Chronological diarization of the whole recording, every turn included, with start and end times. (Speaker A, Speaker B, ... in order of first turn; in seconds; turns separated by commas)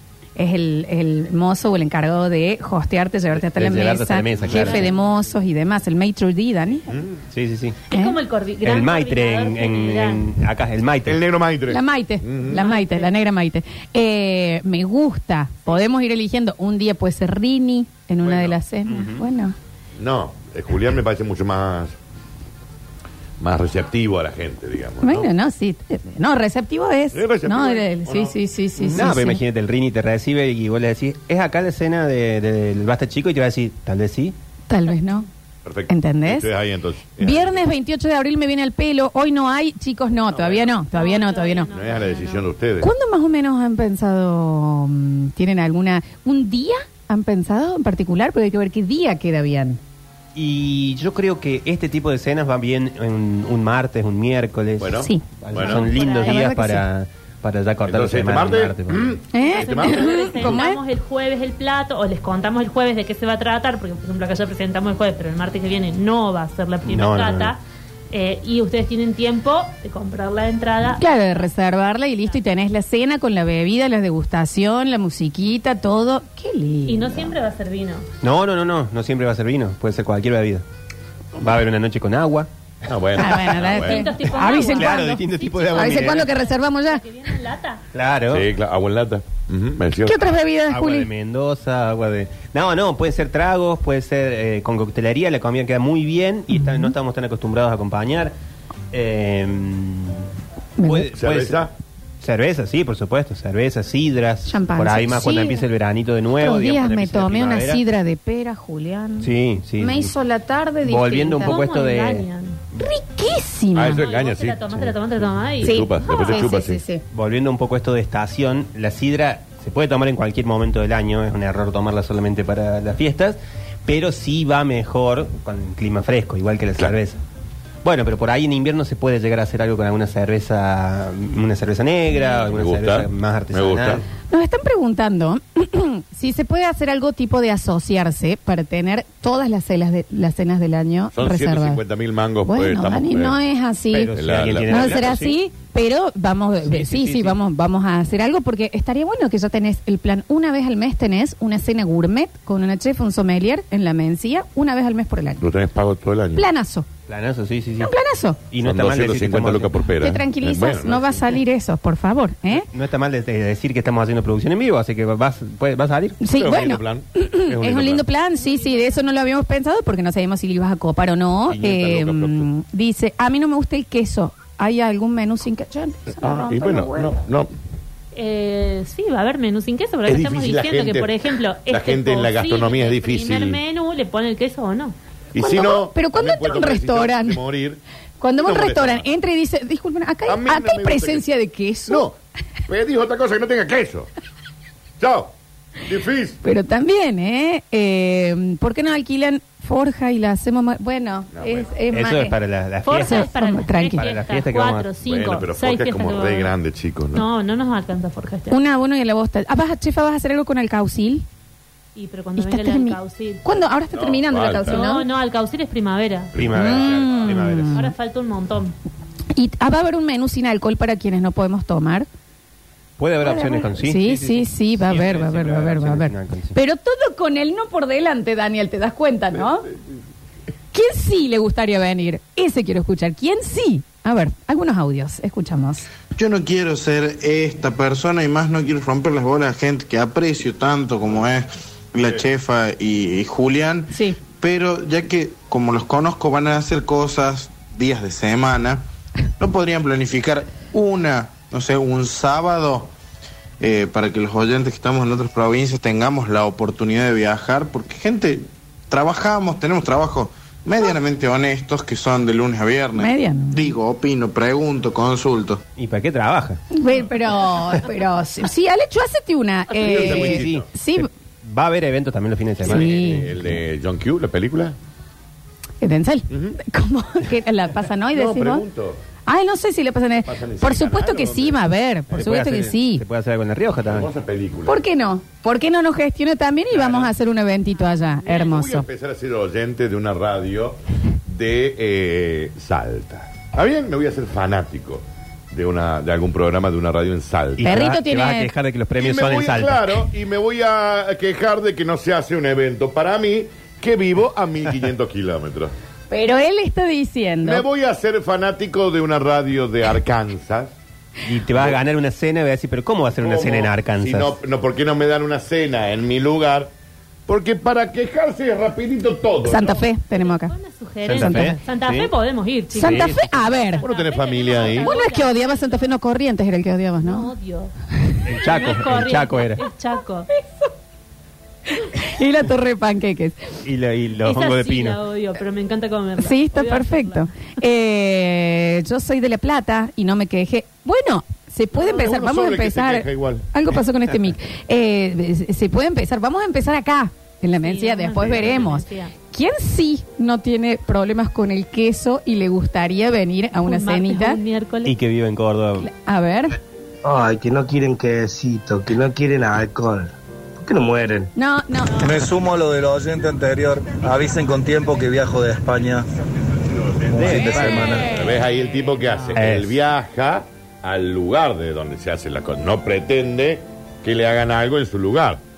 Speaker A: 0.4-7.0, Speaker B: 3.3-4.9, Speaker B: 7.3-7.8, Speaker C: 7.9-10.3, Speaker A: 7.9-8.2, Speaker B: 8.6-11.2, Speaker D: 11.1-12.6, Speaker A: 11.7-19.6, Speaker C: 12.5-13.1, Speaker B: 18.3-19.2, Speaker D: 20.0-21.9, Speaker D: 23.4-25.3, Speaker A: 25.0-29.4, Speaker D: 27.1-28.3, Speaker B: 28.9-34.4, Speaker A: 34.7-35.3, Speaker D: 35.6-37.6, Speaker A: 35.9-36.5, Speaker A: 37.2-41.7, Speaker D: 40.3-40.7, Speaker C: 40.9-42.5, Speaker D: 41.7-42.9, Speaker A: 42.8-49.8, Speaker B: 50.4-59.1, Speaker D: 54.8-55.9, Speaker A: 55.0-55.2, Speaker C: 55.6-56.4, Speaker A: 56.1-56.9, Speaker D: 57.9-60.6, Speaker A: 59.3-60.8, Speaker C: 59.4-71.5, Speaker B: 66.8-67.5, Speaker A: 71.0-77.3, Speaker C: 76.9-78.0, Speaker B: 78.2-80.6, Speaker B: 81.4-82.5, Speaker D: 82.9-84.1, Speaker A: 83.2-87.0, Speaker C: 83.7-87.8, Speaker B: 84.5-86.3, Speaker B: 87.9-88.5, Speaker D: 88.3-90.3, Speaker A: 90.0-91.1, Speaker B: 90.7-98.3, Speaker A: 96.5-96.9, Speaker B: 98.9-100.3, Speaker A: 100.8-101.1, Speaker B: 100.8-101.6, Speaker D: 101.1-101.7, Speaker B: 102.2-107.8, Speaker A: 104.5-105.6, Speaker A: 106.4-111.6, Speaker B: 109.2-110.1, Speaker B: 110.8-112.3, Speaker C: 111.4-112.6, Speaker A: 112.8-114.0, Speaker D: 113.8-115.0, Speaker C: 113.9-116.4, Speaker D: 115.6-116.8, Speaker A: 115.6-117.0, Speaker B: 117.1-127.2, Speaker B: 127.8-134.0, Speaker D: 132.5-134.1, Speaker A: 134.3-141.8, Speaker D: 141.1-143.4, Speaker A: 142.4-155.4, Speaker B: 143.9-145.3, Speaker D: 144.1-145.4, Speaker B: 146.6-147.4, Speaker D: 155.4-156.5, Speaker A: 156.3-156.9, Speaker B: 157.1-157.9, Speaker A: 157.8-158.4, Speaker B: 158.5-159.9, Speaker D: 158.6-161.3, Speaker A: 160.0-162.7, Speaker B: 162.5-166.2, Speaker A: 166.2-177.2, Speaker D: 166.3-168.0, Speaker C: 168.3-169.1, Speaker D: 171.5-172.5, Speaker D: 176.2-177.5, Speaker C: 178.2-184.9, Speaker D: 180.1-183.6, Speaker D: 185.3-187.8, Speaker A: 185.4-187.4, Speaker A: 188.2-192.1, Speaker D: 188.4-189.1, Speaker D: 190.3-191.2, Speaker D: 191.9-192.2, Speaker D: 192.7-194.1, Speaker D: 195.0-196.4, Speaker A: 196.4-202.4, Speaker D: 201.4-201.7, Speaker B: 201.9-203.3, Speaker C: 202.9-206.5, Speaker A: 202.9-204.1, Speaker B: 204.0-204.9, Speaker D: 205.0-207.3, Speaker C: 207.1-208.6, Speaker A: 208.5-211.3, Speaker C: 211.9-213.4, Speaker A: 212.4-215.1, Speaker D: 213.9-214.8, Speaker C: 214.7-216.3, Speaker D: 216.3-217.4, Speaker B: 216.4-217.8, Speaker A: 216.5-217.9, Speaker C: 217.7-218.7, Speaker A: 219.3-222.1, Speaker B: 223.0-226.6, Speaker A: 223.2-229.7, Speaker A: 230.7-235.9, Speaker E: 236.2-248.8, Speaker A: 243.9-244.2, Speaker E: 249.4-252.9, Speaker E: 253.6-265.6, Speaker A: 263.0-263.7, Speaker B: 265.8-266.6, Speaker A: 266.7-271.1, Speaker D: 269.7-270.7, Speaker B: 269.9-273.3, Speaker A: 272.6-273.3, Speaker D: 272.6-274.8, Speaker A: 275.8-278.6, Speaker D: 276.3-276.6, Speaker D: 278.1-279.0, Speaker A: 279.3-283.0, Speaker D: 280.2-281.6, Speaker B: 282.1-284.1, Speaker D: 283.9-284.8, Speaker A: 284.7-288.9, Speaker D: 286.8-287.1, Speaker C: 287.7-288.6, Speaker D: 288.4-297.8, Speaker B: 297.6-300.0, Speaker A: 297.6-298.5, Speaker D: 299.0-305.7, Speaker A: 306.1-307.6, Speaker D: 307.4-310.7, Speaker B: 311.3-314.4, Speaker D: 313.2-316.7, Speaker D: 317.3-319.8, Speaker A: 319.4-320.5, Speaker C: 320.1-325.9, Speaker B: 321.1-322.1, Speaker A: 321.3-321.6, Speaker A: 322.7-323.9, Speaker B: 322.8-323.5, Speaker D: 323.8-324.9, Speaker A: 324.6-327.3, Speaker C: 327.0-327.7, Speaker B: 328.2-329.6, Speaker C: 328.4-330.3, Speaker A: 330.3-330.7, Speaker A: 331.7-333.4, Speaker B: 333.6-335.0, Speaker C: 334.2-337.3, Speaker A: 336.2-354.4, Speaker C: 341.7-342.2, Speaker D: 341.9-343.5, Speaker C: 347.6-349.1, Speaker C: 353.6-354.9, Speaker B: 354.9-355.9, Speaker A: 355.8-356.6, Speaker F: 357.1-360.0, Speaker F: 360.7-361.2, Speaker A: 361.4-362.1, Speaker G: 362.0-366.0, Speaker D: 366.6-375.4, Speaker B: 367.1-367.7, Speaker G: 367.1-368.1, Speaker C: 367.6-369.0, Speaker B: 369.4-369.8